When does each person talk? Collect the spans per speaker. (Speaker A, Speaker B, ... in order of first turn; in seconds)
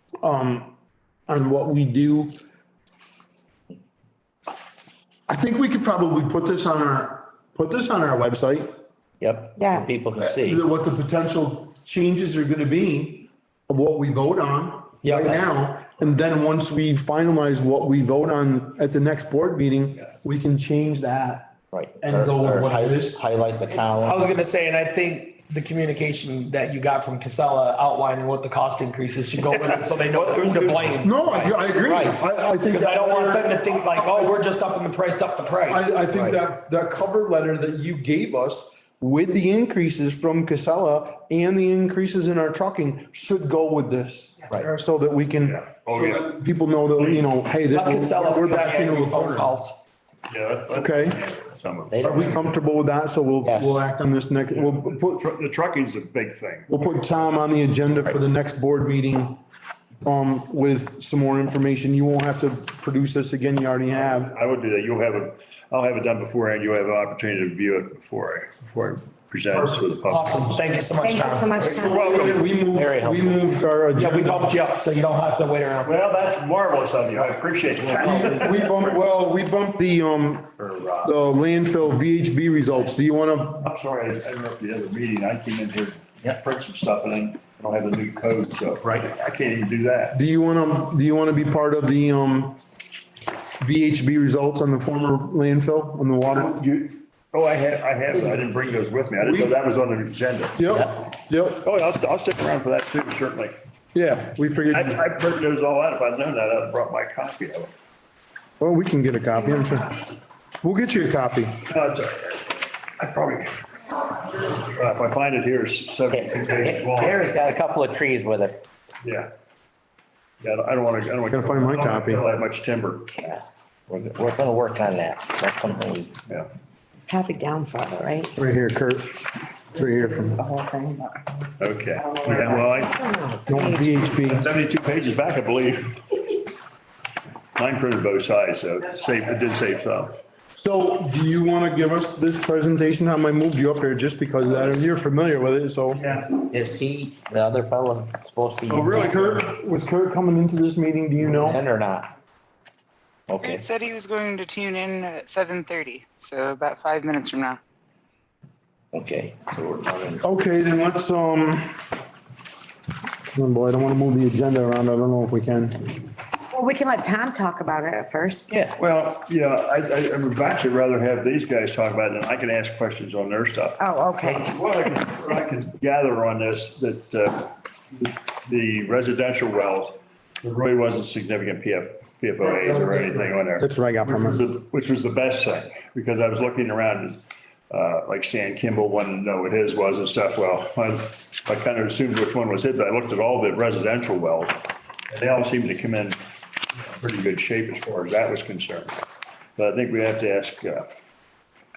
Speaker A: 0.2-0.7, 1.3-2.4, 5.3-8.7, 10.2-23.2, 31.0-34.4, 35.7-49.5, 50.7-51.2, 52.0-55.2, 56.7-59.4, 60.0-64.3, 71.7-74.5, 77.9-83.7, 90.1-92.6, 93.6-96.6, 99.2-99.5, 100.6-101.7, 103.9-105.0, 108.6-110.1, 110.6-111.6, 121.3-122.2, 128.4-130.4, 133.5-134.5, 140.6-146.0, 148.7-151.6, 160.2-161.8, 163.3-165.9, 182.7-184.4
Speaker B: 9.2-10.6, 21.7-24.2, 31.9-32.2, 51.9-52.4, 53.4-53.8, 72.6-73.5, 116.1-118.6, 123.1-126.1, 146.5-149.1, 151.2-152.1, 153.3-153.7, 158.9-160.2, 168.5-168.8
Speaker C: 9.6-9.9, 71.0-72.3, 127.1-128.4, 129.9-131.3, 132.0-134.1, 166.5-168.5, 173.8-174.5
Speaker D: 15.0-15.4, 24.1-32.1, 32.6-36.1, 47.7-49.8, 69.5-71.8, 74.0-76.0, 77.9-78.2
Speaker E: 30.1-30.9, 45.4-46.4, 47.0-47.3, 50.3-52.3, 54.5-56.7, 63.9-70.7, 71.9-72.4, 75.8-78.9, 83.6-90.2, 96.3-100.7, 101.6-103.6, 104.7-107.7, 111.7-117.4, 119.0-119.3, 120.4-123.1, 131.6-133.0, 134.2-136.2, 137.6-140.2, 145.9-146.3, 148.7-149.5, 168.8-196.2, 196.7-199.0, 199.6-200.9
Speaker F: 153.4-157.6